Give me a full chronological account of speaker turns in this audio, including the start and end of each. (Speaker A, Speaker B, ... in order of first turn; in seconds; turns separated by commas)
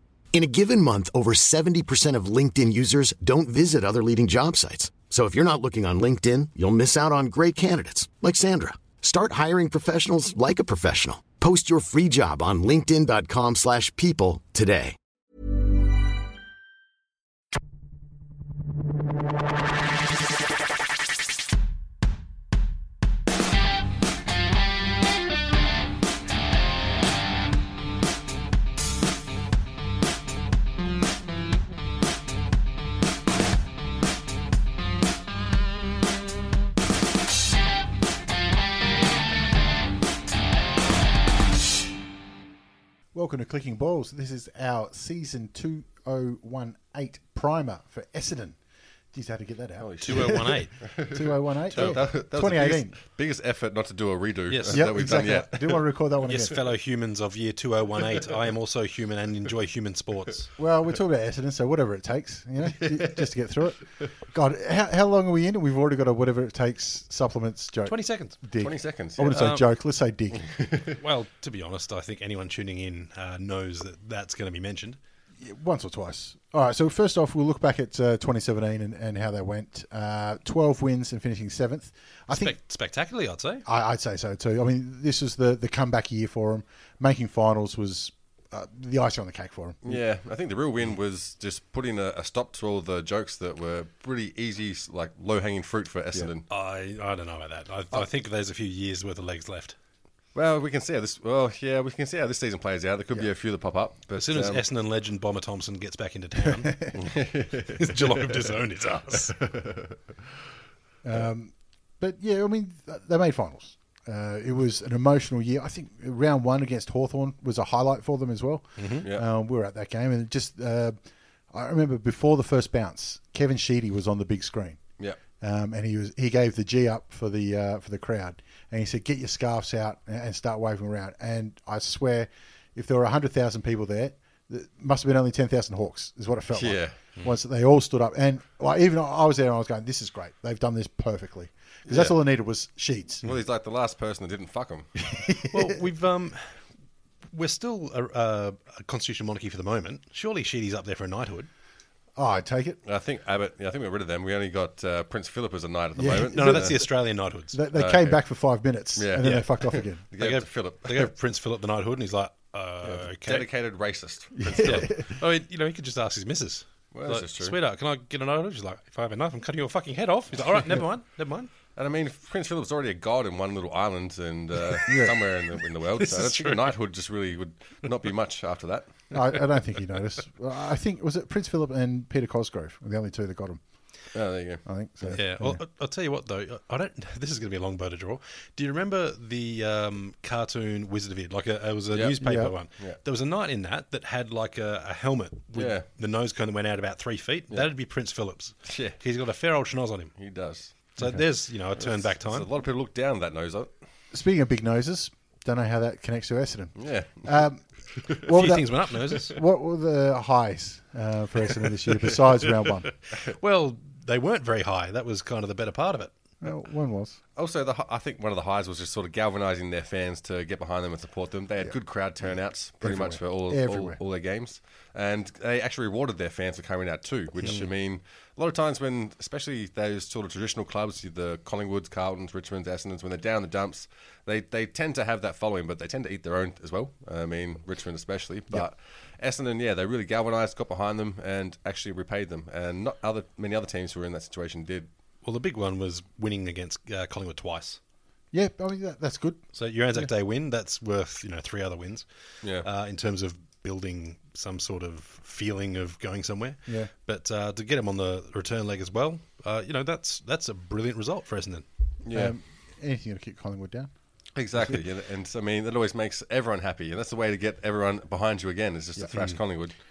Speaker A: 0.3-15.0, Speaker B: 43.1-48.6, Speaker B: 49.1-53.0, Speaker C: 49.8-55.9, Speaker D: 50.0-50.7, Speaker D: 51.7-52.1, Speaker D: 54.5-54.9, Speaker B: 54.7-56.6, Speaker D: 56.2-60.5, Speaker B: 60.6-70.5, Speaker C: 62.8-63.3, Speaker D: 67.8-68.4, Speaker C: 68.6-69.5, Speaker D: 69.3-69.7, Speaker C: 70.3-71.0, Speaker D: 71.0-75.0, Speaker B: 75.4-82.6, Speaker D: 82.3-83.7, Speaker B: 83.7-90.0, Speaker C: 89.8-96.5, Speaker D: 96.5-99.8, Speaker C: 100.3-104.6, Speaker D: 104.2-106.9, Speaker B: 106.7-107.0, Speaker C: 106.9-108.3, Speaker D: 107.8-109.4, Speaker C: 109.3-110.0, Speaker B: 111.0-121.0, Speaker D: 118.8-119.0, Speaker B: 121.5-124.8, Speaker B: 125.4-143.3, Speaker C: 136.5-137.0, Speaker C: 141.9-142.2, Speaker C: 143.2-145.1, Speaker B: 145.1-145.8, Speaker D: 145.5-146.6, Speaker D: 147.3-151.5, Speaker B: 152.2-152.8, Speaker C: 152.8-156.8, Speaker B: 156.0-156.9, Speaker D: 156.2-157.6, Speaker B: 157.5-160.0, Speaker C: 157.7-158.2, Speaker C: 159.0-161.1, Speaker D: 159.2-163.5, Speaker C: 162.8-164.9, Speaker B: 164.4-165.1, Speaker D: 164.5-171.5, Speaker C: 166.9-167.6, Speaker C: 171.8-179.2, Speaker B: 174.9-175.2, Speaker D: 176.0-176.7, Speaker B: 179.1-183.6, Speaker C: 184.1-185.2, Speaker B: 184.7-185.6, Speaker D: 185.1-200.2, Speaker B: 192.2-192.5, Speaker C: 192.7-193.0, Speaker C: 195.5-195.9, Speaker C: 198.7-199.0, Speaker C: 200.2-200.9, Speaker D: 200.9-202.5, Speaker B: 201.0-201.2, Speaker C: 201.8-203.7, Speaker B: 204.1-212.9, Speaker C: 206.8-207.5, Speaker D: 208.3-209.4, Speaker D: 213.1-216.1, Speaker B: 216.4-217.2, Speaker C: 217.4-244.9, Speaker B: 222.8-224.0, Speaker D: 227.4-227.7, Speaker D: 245.2-247.8, Speaker B: 248.3-249.4, Speaker D: 249.5-261.7, Speaker B: 256.7-256.9, Speaker C: 262.0-262.4, Speaker B: 262.1-263.9, Speaker C: 264.4-269.8, Speaker D: 269.1-269.4